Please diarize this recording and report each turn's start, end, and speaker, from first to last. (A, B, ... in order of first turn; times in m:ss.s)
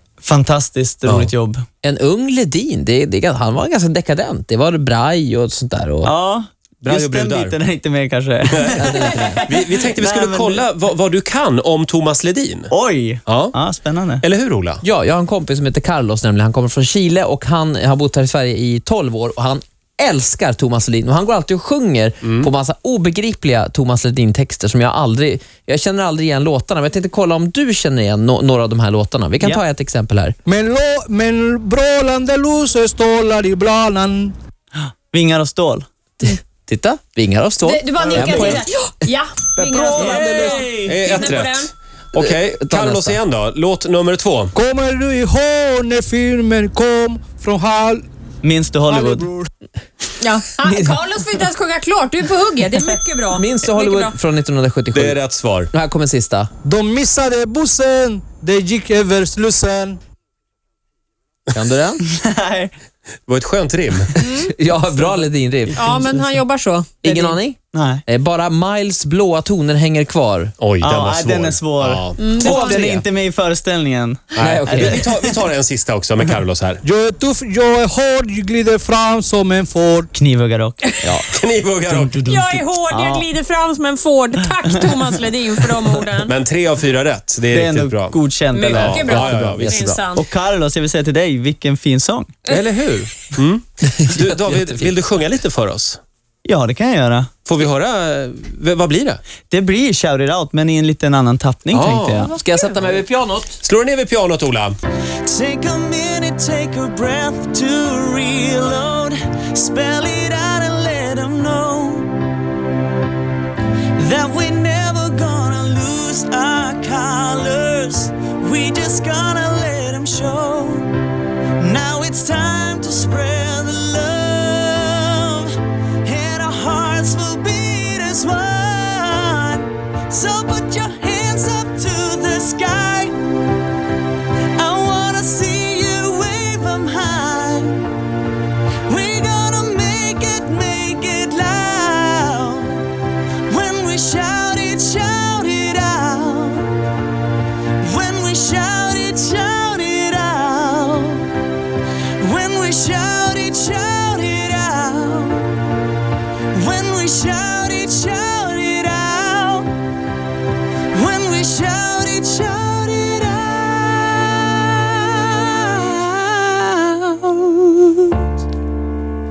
0:00.2-0:01.6 A
0:01.1-0:01.3 B
0:01.8-0:06.1 C
0:06.0-0:10.6 A
0:06.8-0:07.6 B
0:08.6-0:08.8 B
0:08.8-0:09.4 C
0:09.4-0:12.7 B
0:12.7-0:14.2 A
0:13.2-0:13.5 B
0:14.2-0:14.8 B
0:14.8-0:30.3 C
0:22.2-0:22.5 B
0:30.4-0:34.3 D
0:35.1-0:35.8 A
0:36.2-0:38.6 C
0:37.6-0:41.7 E
0:38.1-0:38.6 A
0:39.6-0:41.3 A
0:39.9-0:40.5 D
0:40.5-0:44.5 B
0:42.1-0:43.2 C
0:44.5-0:48.0 D
0:48.4-0:49.3 A
0:48.9-0:49.4 D
0:50.2-0:54.2 E
0:50.6-0:51.0 C
0:53.3-0:55.2 C
0:54.9-0:55.7 B
0:55.7-0:56.5 C
0:56.6-1:00.0 D
1:01.5-1:02.0 C
1:02.0-1:02.7 A
1:03.3-1:04.1 B
1:04.2-1:05.9 C
1:04.2-1:04.5 E
1:05.0-1:05.2 A
1:05.7-1:06.4 A
1:05.7-1:07.1 E
1:07.0-1:10.5 C
1:07.0-1:08.0 A
1:10.6-1:12.4 B
1:10.8-1:15.4 A
1:12.2-1:12.8 E
1:12.4-1:13.0 C
1:14.3-1:16.8 B
1:14.4-1:15.0 C
1:16.8-1:20.1 D
1:20.1-1:21.2 A
1:21.0-1:21.3 C
1:21.3-1:22.2 B
1:21.8-1:23.3 A
1:22.2-1:26.3 E
1:24.9-1:25.9 A
1:26.2-1:30.0 B
1:27.5-1:29.5 A
1:28.5-1:30.2 E
1:29.0-1:30.0 C
1:30.1-1:32.3 A
1:32.5-1:36.0 B
1:33.9-1:34.9 C
1:36.4-1:37.3 A
1:37.4-1:39.2 B
1:39.5-1:42.3 A
1:41.7-1:42.3 B
1:42.3-1:43.6 C
1:43.6-1:44.7 B
1:45.2-1:52.1 A
1:54.0-2:00.9 A
2:01.6-2:13.1 A
2:14.5-2:17.8 A
2:18.8-2:22.9 A
2:23.5-2:26.7 A
2:27.8-2:31.3 A
2:32.2-2:35.5 A
2:36.5-2:39.7 A
2:40.9-2:48.0 A